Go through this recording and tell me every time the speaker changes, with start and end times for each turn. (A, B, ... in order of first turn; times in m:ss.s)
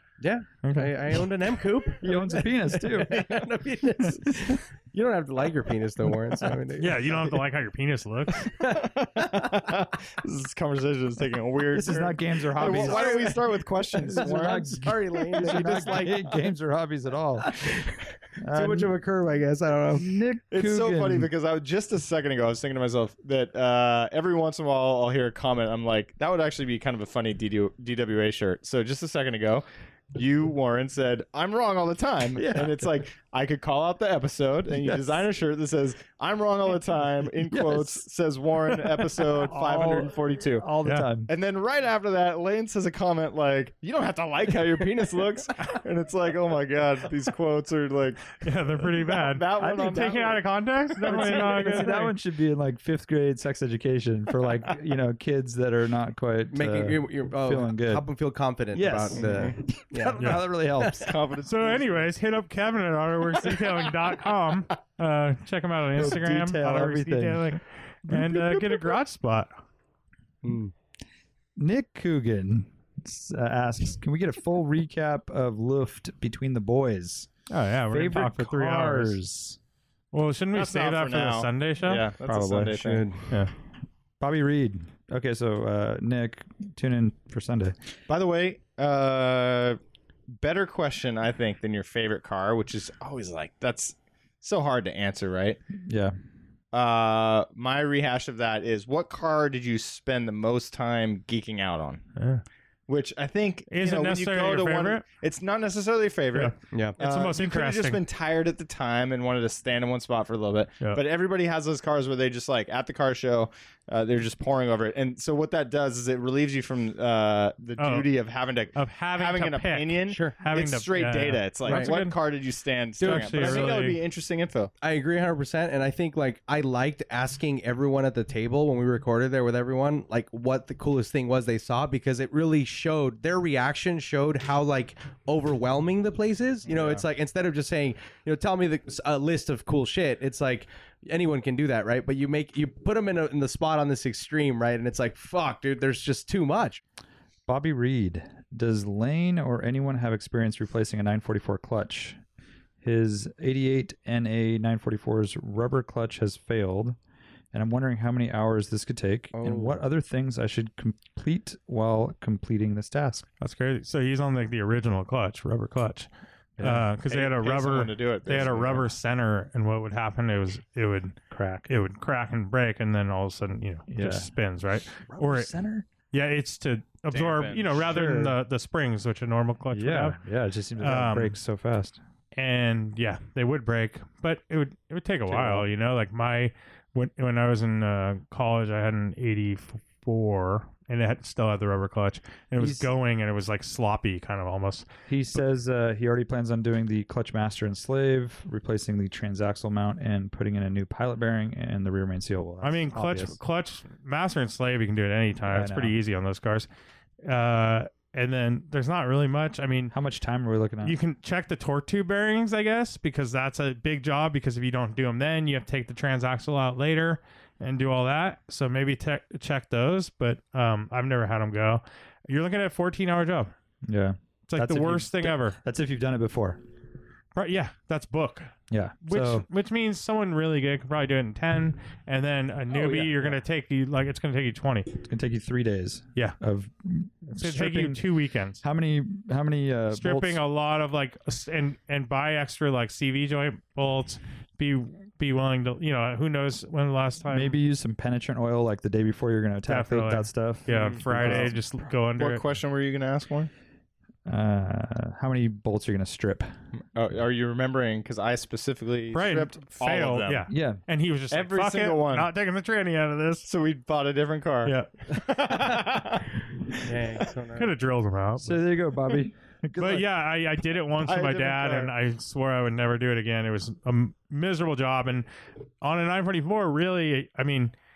0:00.2-0:07.2 A
0:00.6-0:01.2 B
0:02.0-0:03.5 C
0:04.0-0:04.6 C
0:06.8-0:08.5 B
0:08.4-0:08.9 A
0:08.6-0:14.8 D
0:11.7-0:13.4 C
0:12.6-0:16.4 A
0:13.9-0:17.7 C
0:15.3-0:16.2 D
0:17.4-0:20.1 A
0:18.4-0:18.9 C
0:19.9-0:21.3 C
0:20.5-0:40.7 D
0:32.4-0:32.9 C
0:37.4-0:38.0 C
0:38.6-0:41.3 C
0:41.3-0:50.4 D
0:48.4-0:52.1 B
0:49.6-0:50.3 C
0:51.0-0:58.0 C
0:51.0-0:51.4 D
0:51.7-0:52.0 A
0:56.5-1:01.1 A
0:58.7-1:01.2 C
0:59.1-0:59.6 D
1:00.2-1:00.4 B
1:01.0-1:02.1 D
1:01.4-1:09.5 B
1:06.0-1:08.8 C
1:10.4-1:10.7 A
1:11.6-1:17.3 C
1:17.5-1:19.2 B
1:17.9-1:19.6 C
1:20.1-1:22.1 B
1:20.5-1:23.1 D
1:22.2-1:22.9 C
1:22.7-1:23.2 A
1:24.2-1:27.8 C
1:28.1-1:29.8 D
1:30.3-1:35.6 D
1:35.8-1:36.2 C
1:36.7-1:42.0 D
1:42.2-1:42.4 B
1:42.9-2:04.7 D
1:43.7-1:45.0 B
1:46.3-1:48.0 B
1:46.7-1:47.0 A
1:57.8-1:58.1 B
1:58.7-2:02.2 B
2:00.1-2:00.4 A
2:01.6-2:01.9 A
2:03.0-2:04.0 B
2:03.0-2:03.8 A
2:04.8-2:26.8 A
2:16.7-2:17.0 C
2:27.5-2:32.2 C
2:32.8-2:37.0 C
2:37.5-2:43.2 C
2:39.4-2:39.8 A
2:43.4-2:46.1 B
2:46.6-2:46.9 C
2:46.6-2:51.2 B
2:47.0-2:48.9 D
2:51.3-2:51.7 C
2:51.7-2:55.5 B
2:53.9-2:54.3 C
2:54.9-2:55.9 C
2:56.1-3:00.2 B
2:57.1-2:57.8 D
2:57.8-2:58.4 C
2:59.7-3:02.0 C
3:00.8-3:01.4 B
3:02.4-3:14.9 B
3:05.3-3:05.7 C
3:12.6-3:12.9 C
3:15.1-3:23.4 C
3:22.6-3:26.7 B
3:25.5-3:26.0 C
3:27.2-3:29.9 B
3:29.9-3:31.0 C
3:30.8-3:43.5 B
3:43.9-3:46.6 C
3:44.5-3:45.6 B
3:47.3-3:48.5 B
3:48.7-3:49.5 C
3:49.1-3:55.0 B
3:52.7-3:53.4 C
3:55.0-3:58.0 C
3:57.3-3:58.6 B
3:58.6-4:00.4 C
3:59.9-4:07.6 B
4:07.3-4:11.6 C
4:09.7-4:12.4 B
4:11.2-4:11.5 D
4:12.2-4:13.5 D
4:14.3-4:16.5 C
4:16.9-4:20.5 D
4:19.1-4:23.5 B
4:20.5-4:20.8 C
4:21.3-4:22.3 D
4:23.5-4:26.4 D
4:24.6-4:25.2 B
4:26.7-4:27.7 A
4:27.6-4:28.6 B
4:28.4-4:30.1 C
4:29.8-4:35.3 B
4:31.0-4:31.9 D
4:35.8-4:37.7 B